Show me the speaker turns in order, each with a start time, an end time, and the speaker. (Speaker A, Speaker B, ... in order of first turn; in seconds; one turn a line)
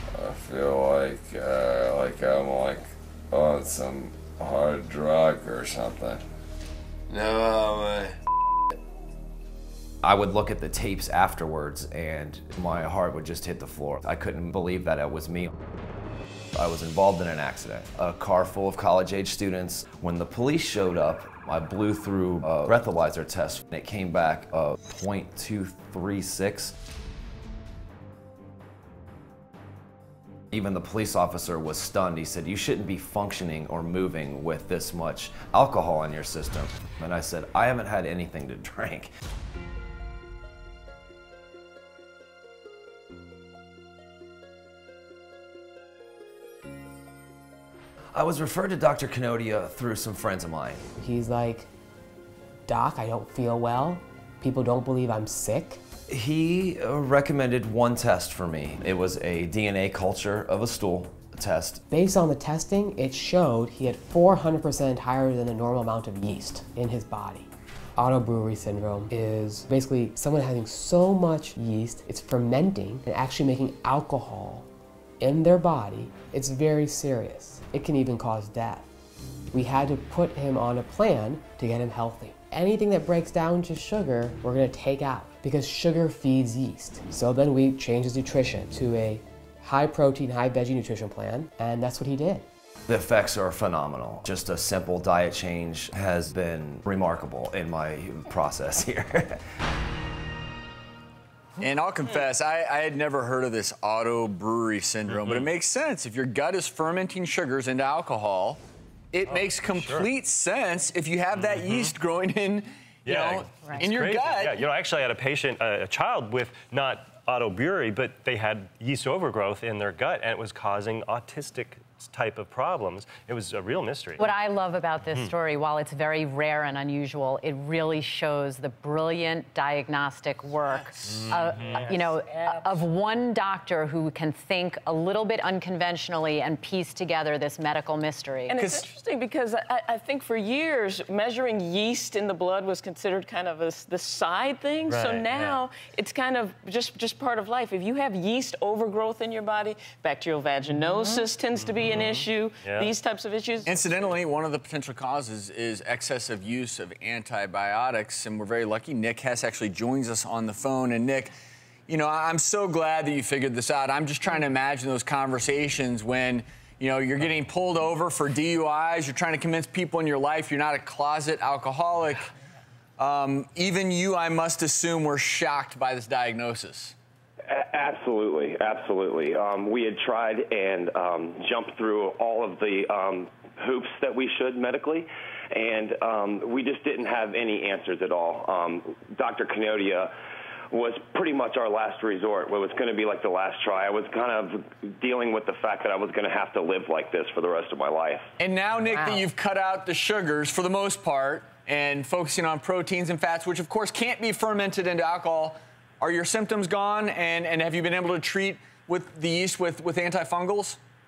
Speaker A: 0.1-6.2
Speaker A: 7.1-8.1
Speaker B: 10.0-15.5
Speaker B: 16.6-26.8
Speaker B: 30.5-39.1
Speaker B: 48.1-50.9
Speaker C: 51.0-51.7
Speaker C: 52.7-55.8
Speaker B: 56.1-61.8
Speaker C: 61.9-74.7
Speaker C: 75.2-78.9
Speaker C: 79.5-92.5
Speaker B: 92.9-99.4
Speaker D: 101.6-108.6
Speaker D: 109.1-114.6
Speaker E: 109.3-110.1
Speaker E: 113.0-124.2
Speaker F: 124.2-138.7
Speaker E: 131.0-131.9
Speaker G: 138.5-154.0
Speaker E: 144.9-145.6
Speaker E: 151.1-152.9
Speaker D: 153.6-161.3
Speaker D: 161.9-172.3
Speaker D: 173.0-177.0
Speaker H: 177.5-190.1
Speaker H: 190.7-198.3
Speaker D: 198.4-210.8